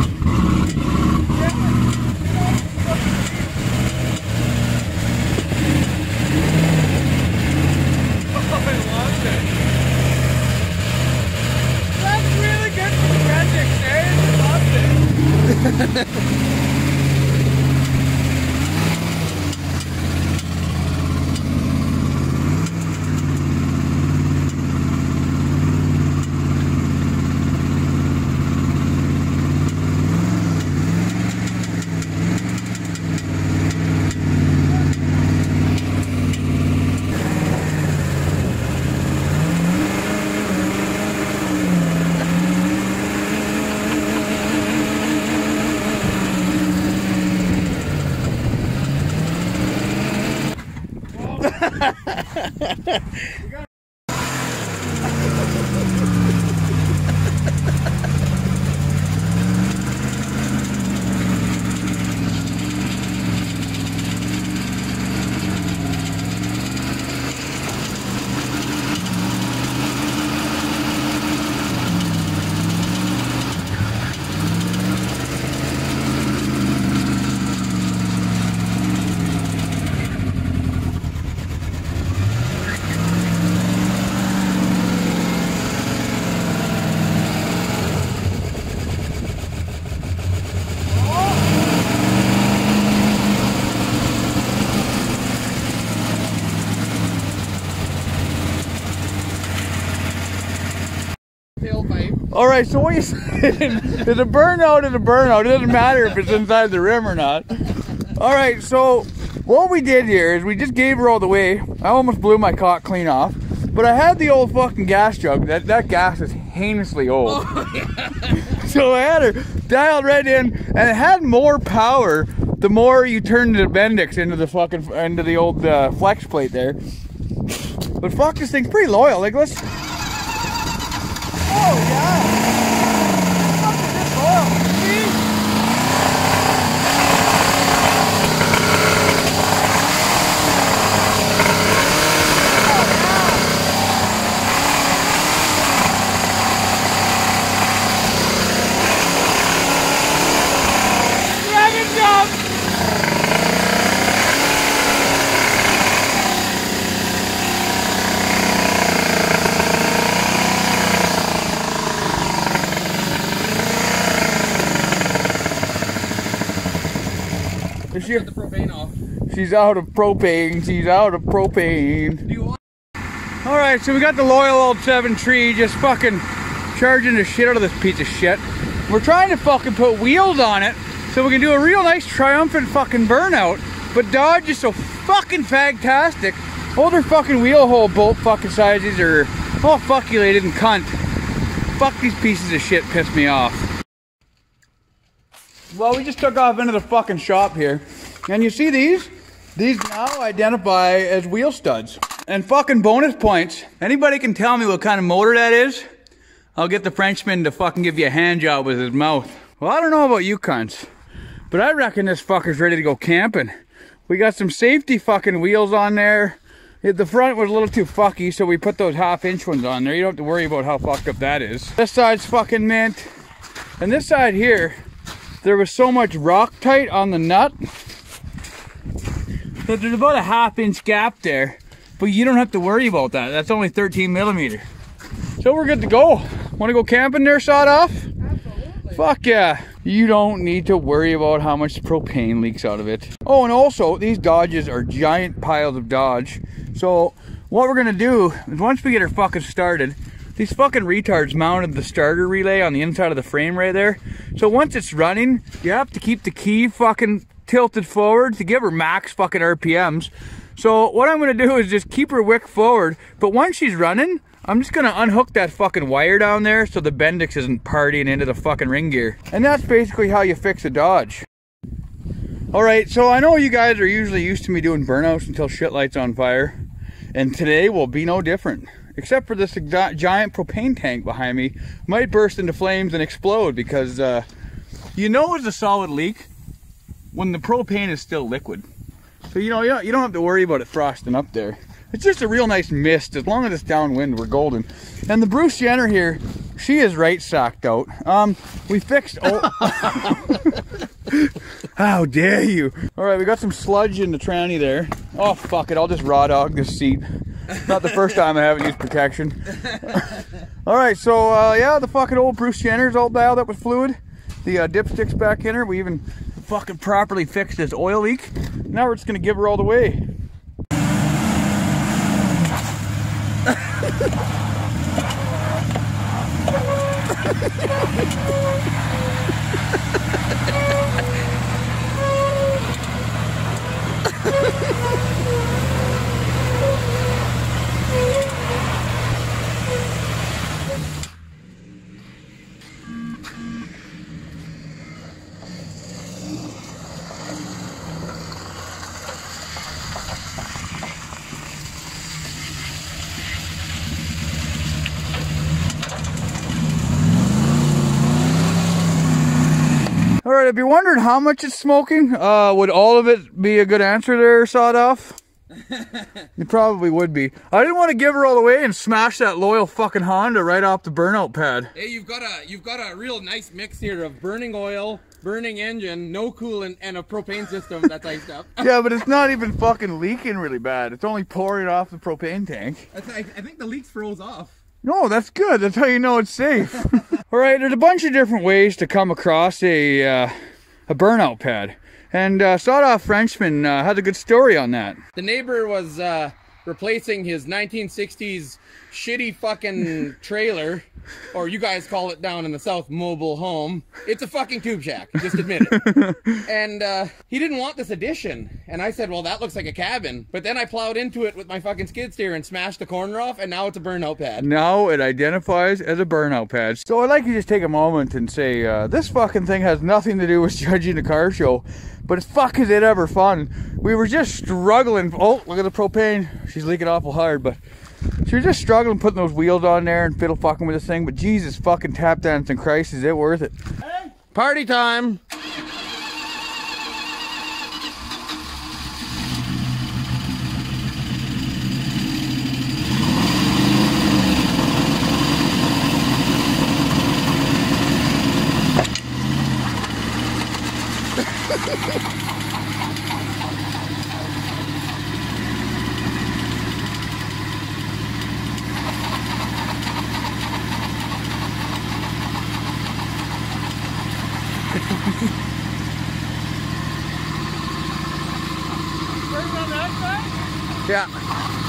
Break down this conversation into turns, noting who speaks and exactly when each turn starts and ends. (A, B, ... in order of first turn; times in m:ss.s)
0:01.3-0:03.6 A
0:08.3-0:09.5 A
0:11.9-0:15.0 A
0:15.6-0:16.0 B
1:41.6-1:42.2 B
1:42.3-1:57.5 A
1:57.2-1:58.5 B
1:58.4-2:06.8 A
2:08.0-2:09.6 A
2:11.4-2:12.4 A
2:13.1-2:15.2 A
2:22.5-2:23.5 A
2:31.2-2:32.4 A
2:47.9-2:48.3 A
2:48.0-2:49.0 B
2:49.3-2:52.2 A
2:52.2-2:52.6 B
2:53.4-3:11.0 A
3:11.8-3:13.7 A
3:15.7-3:25.8 A
3:26.6-3:30.9 A
3:31.5-3:33.6 A
3:34.1-3:43.1 A
3:43.8-3:44.8 A
3:45.4-3:47.6 A
3:49.6-3:54.7 A
3:55.4-3:58.1 A
3:58.9-4:31.3 A
4:32.5-4:36.6 A
4:37.1-4:44.3 A
4:44.9-4:46.3 A
4:47.1-4:48.7 A
4:49.3-5:20.0 A
6:00.2-6:05.2 A
6:05.6-6:06.2 B
6:06.4-6:11.7 A
6:11.7-6:18.7 B
6:18.6-6:22.9 A
6:22.9-6:24.6 B
6:24.8-6:30.4 A
6:30.9-6:35.0 A
6:35.1-6:45.9 B
6:45.7-6:46.4 A
6:46.4-6:54.5 B
6:54.4-7:07.6 A
7:08.2-7:14.1 A
7:14.3-7:15.2 B
7:49.3-7:50.3 A